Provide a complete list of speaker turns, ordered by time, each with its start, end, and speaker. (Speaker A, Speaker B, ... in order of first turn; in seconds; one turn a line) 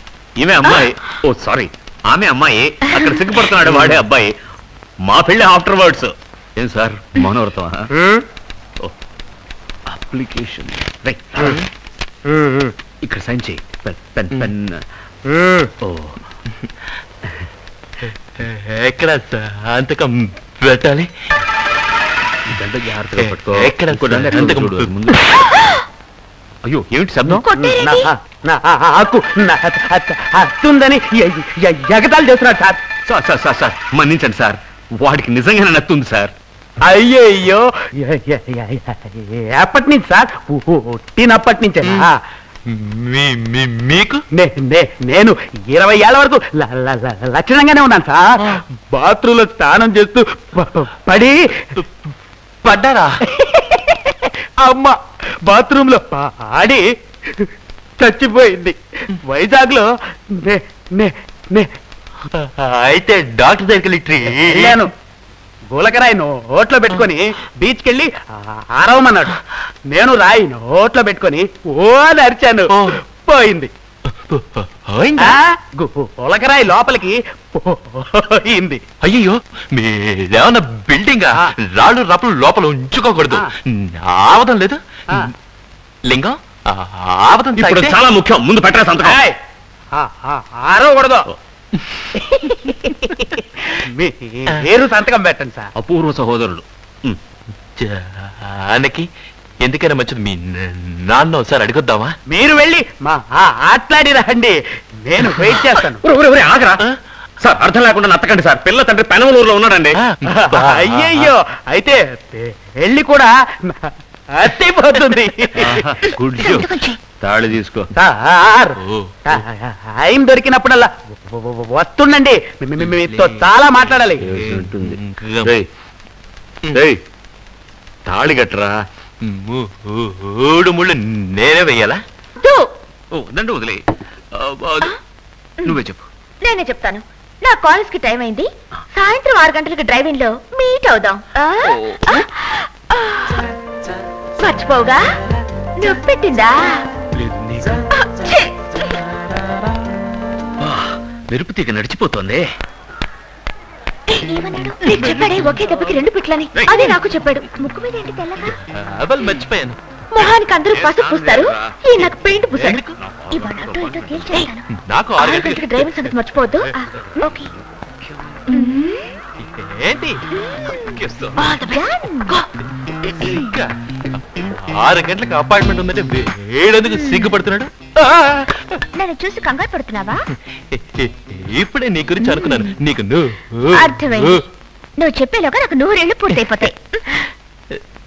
Speaker A: 0.4-4.3
Speaker A: 5.0-7.9
Speaker A: 9.9-11.6
Speaker A: 13.0-14.8
Speaker A: 15.8-16.1
Speaker B: 18.1-21.1
Speaker A: 22.5-25.3
Speaker B: 23.2-24.9
Speaker A: 26.6-27.4
Speaker C: 27.4-28.1
Speaker D: 27.5-32.8
Speaker A: 33.1-36.3
Speaker D: 36.8-42.1
Speaker B: 42.7-44.2
Speaker D: 44.3-51.4
Speaker B: 51.7-52.1
Speaker B: 52.6-53.1
Speaker D: 53.3-56.8
Speaker D: 57.4-61.7
Speaker B: 62.3-64.8
Speaker D: 64.2-64.9
Speaker D: 65.7-73.7
Speaker B: 74.3-75.4
Speaker D: 75.2-78.8
Speaker B: 79.0-85.3
Speaker B: 86.1-88.0
Speaker A: 87.6-89.2
Speaker D: 89.0-89.4
Speaker D: 89.9-91.2
Speaker B: 92.0-93.1
Speaker D: 92.3-95.7
Speaker A: 95.8-97.2
Speaker B: 97.8-99.0
Speaker B: 99.6-102.1
Speaker D: 102.3-106.0
Speaker A: 106.0-106.8
Speaker A: 107.4-110.0
Speaker B: 110.0-111.3
Speaker D: 110.3-115.8
Speaker A: 115.6-117.9
Speaker C: 116.4-117.0
Speaker D: 118.0-124.2
Speaker B: 118.8-119.1
Speaker B: 122.8-123.3
Speaker B: 124.0-125.5
Speaker A: 124.3-125.7
Speaker A: 126.7-127.0
Speaker A: 128.1-128.8
Speaker B: 129.2-132.0
Speaker C: 132.4-132.7
Speaker A: 133.1-133.8
Speaker A: 134.3-135.0
Speaker A: 135.6-136.1
Speaker C: 136.4-143.4
Speaker A: 141.7-142.2
Speaker C: 144.4-145.0
Speaker C: 145.8-146.8
Speaker A: 147.2-147.8
Speaker C: 148.0-149.0
Speaker A: 150.6-152.4
Speaker C: 154.1-158.6
Speaker A: 156.5-157.0
Speaker B: 158.5-159.8
Speaker C: 160.1-162.8
Speaker A: 160.7-162.0
Speaker B: 162.5-162.9
Speaker A: 163.0-164.5
Speaker C: 163.3-164.6
Speaker B: 164.8-166.6
Speaker C: 165.2-167.5
Speaker C: 168.5-169.0
Speaker B: 169.4-171.6
Speaker C: 171.5-172.4
Speaker B: 173.2-173.7
Speaker B: 174.4-178.7
Speaker C: 176.9-177.3
Speaker C: 178.9-180.3
Speaker B: 180.7-184.4
Speaker C: 182.2-182.7
Speaker C: 183.7-184.4
Speaker C: 185.0-187.2
Speaker B: 186.3-186.7